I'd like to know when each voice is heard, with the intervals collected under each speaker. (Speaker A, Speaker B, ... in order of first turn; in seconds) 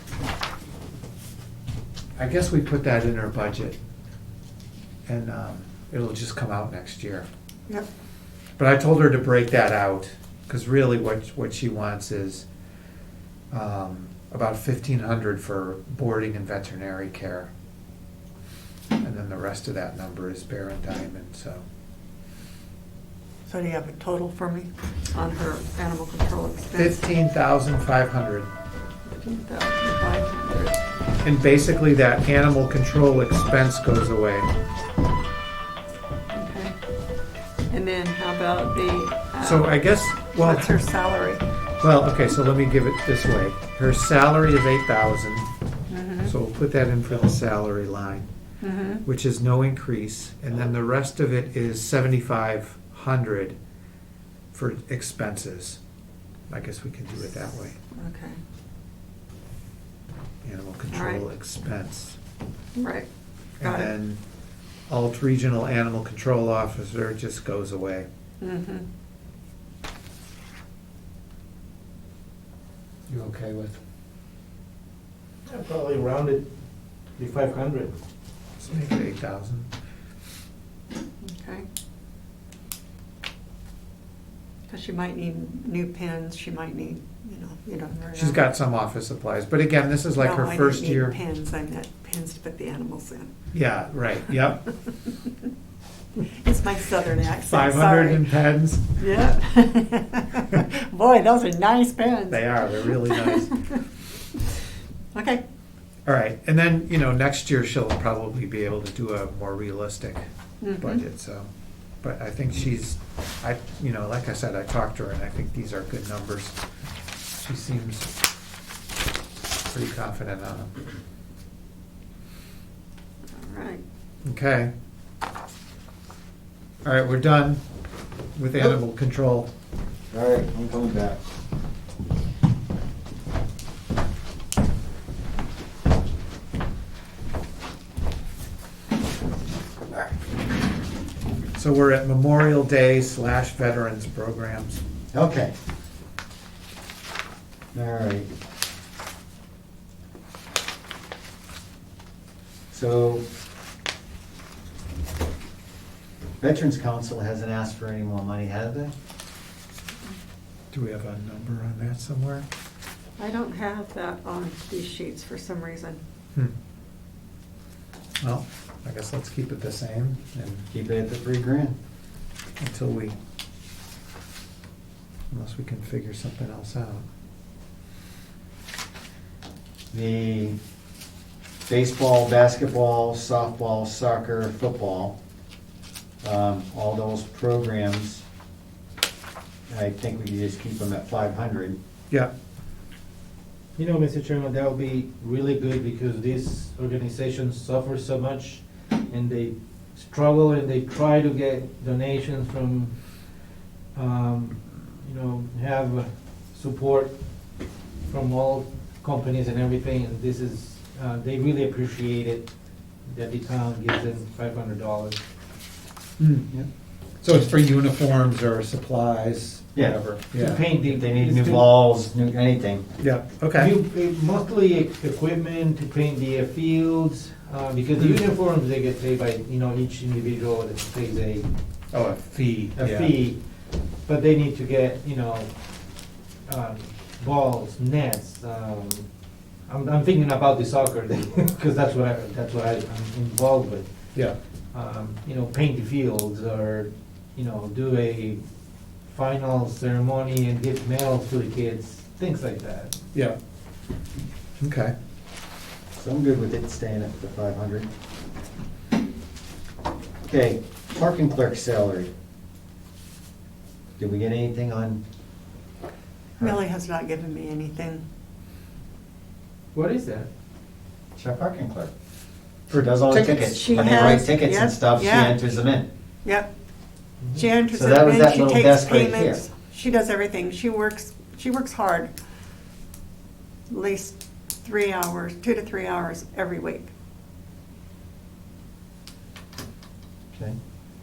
Speaker A: 2.2-3.8, 5.0-7.3, 8.6-12.4, 13.5-17.5, 19.0-21.6, 26.7-28.5, 31.2-34.5, 39.4-40.7, 41.8-45.5, 46.2-48.3, 49.0-53.6, 54.5-55.8, 56.5-57.8, 60.4-62.2, 63.6-64.2, 64.9-68.1, 73.1-73.8, 78.6-79.7, 88.1-91.2, 93.5-94.7, 97.4-99.0, 102.3-103.5, 106.0-110.3, 110.8-111.5, 112.0-116.6, 117.4-118.1, 119.7-120.8, 124.2-124.7, 126.8-127.6, 128.3-129.5, 141.5-144.8, 160.7-162.4, 168.2-170.7, 172.6-173.2, 175.3-177.1, 216.2-216.5, 217.2-220.6, 223.0-223.7, 231.9-233.1, 254.6-254.9, 273.1-273.5
Speaker B: 23.5-27.0, 29.1-30.8, 36.3-36.7, 37.7-39.8, 40.3-41.4, 45.9-46.3, 48.6-49.0, 57.9-58.4, 60.9-61.2, 62.8-63.1, 63.6-63.9, 68.4-68.8, 81.2-81.7, 84.7-88.4, 90.2-93.3, 96.3-98.3, 99.0-103.8, 105.1-105.4, 110.6-111.0, 123.3-123.8, 163.2-166.0, 266.4-268.0, 273.4-275.4, 276.2-276.5, 277.3-282.1, 283.7-286.9
Speaker C: 75.5-76.4, 77.2-78.0, 193.8-202.9, 203.9-207.1, 208.1-212.5, 213.1-215.2, 220.3-221.7, 223.5-231.5, 232.7-233.4, 234.0-235.5, 236.4-239.1, 239.7-243.9, 244.7-248.4, 249.1-253.0, 269.7-270.3
Speaker D: 130.1-131.2, 145.1-145.5, 147.7-148.3, 152.7-153.2, 156.4-158.9, 170.7-171.8, 179.9-180.6, 181.7-185.2, 186.2-188.2, 189.7-191.8, 219.7-220.0, 220.8-222.8, 255.9-257.9, 260.3-262.1, 264.0-265.0, 271.1-271.9, 272.7-275.9, 277.7-279.4